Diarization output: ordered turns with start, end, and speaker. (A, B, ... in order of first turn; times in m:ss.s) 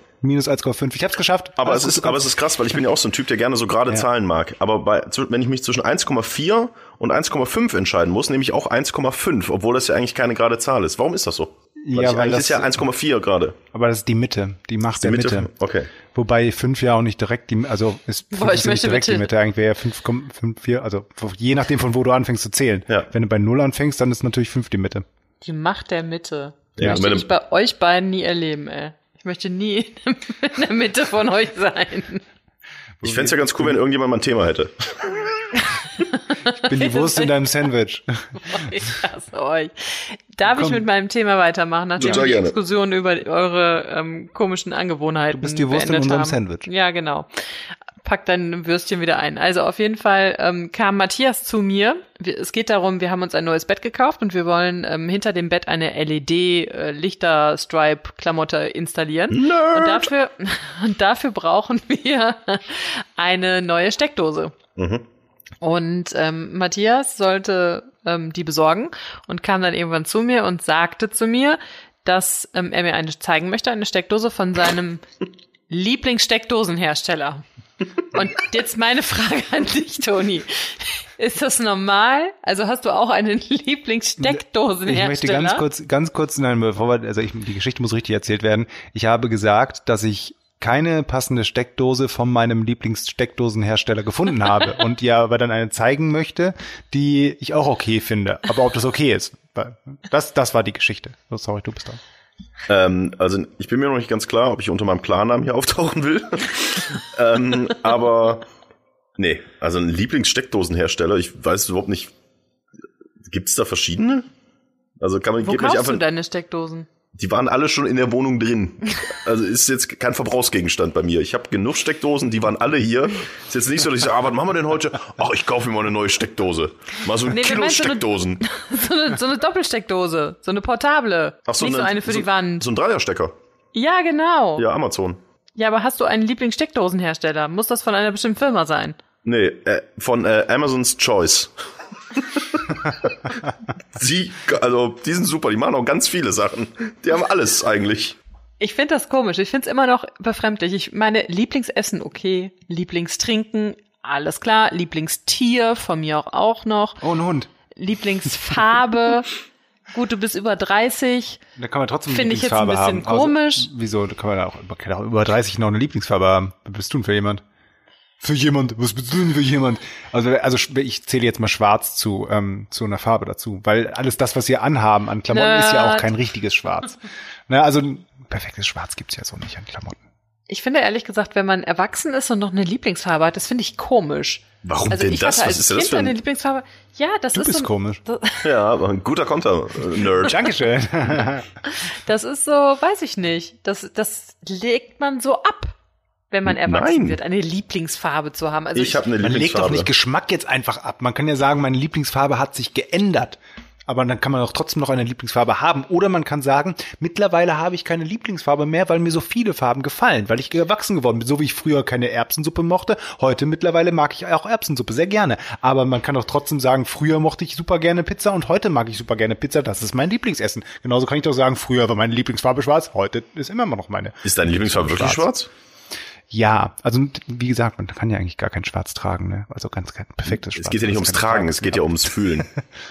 0:00.2-0:02.3 A
0:01.6-0:13.6 B
0:11.8-0:12.8 A
0:13.7-0:15.5 A
0:15.0-0:15.9 B
0:16.1-0:25.0 A
0:18.3-0:19.3 C
0:25.4-0:32.2 C
0:26.8-0:27.3 B
0:33.0-0:33.8 A
0:33.0-0:35.2 B
0:35.6-0:37.4 C
0:36.6-0:38.7 A
0:38.4-0:47.3 C
0:40.5-0:40.8 A
0:42.0-0:42.5 B
0:45.3-0:46.7 A
0:48.0-1:04.6 C
0:59.3-1:00.1 B
1:04.8-1:05.0 B
1:05.6-1:15.0 C
1:15.7-1:17.4 C
1:18.1-1:25.6 C
1:24.2-1:42.0 A
1:42.7-1:48.4 B
1:49.2-1:52.1 B
1:53.2-1:54.3 B
1:55.0-1:56.0 B
1:55.4-1:56.9 C
1:57.2-2:08.4 B
2:07.2-2:12.7 C
2:11.5-2:13.3 B
2:13.7-2:14.6 C
2:14.6-2:15.2 B
2:15.6-2:19.0 C
2:19.2-2:21.5 B
2:22.3-2:23.4 B
2:23.9-2:28.2 B
2:28.6-2:37.0 C
2:37.0-2:37.5 A
2:37.7-2:39.3 C
2:39.9-2:41.4 C
2:41.6-2:47.4 A
2:42.1-2:43.7 C
2:48.2-3:00.0 A
2:55.3-2:56.1 C
3:00.5-3:08.5 C
3:04.6-3:06.2 B
3:07.3-3:08.0 A
3:08.4-3:10.5 B
3:10.2-3:11.5 A
3:11.7-3:15.7 C
3:16.3-3:19.1 C
3:16.5-3:17.2 B
3:18.8-3:19.9 B
3:19.2-3:45.3 A
3:44.2-3:45.5 B
3:46.3-3:52.4 A
3:50.5-3:52.5 B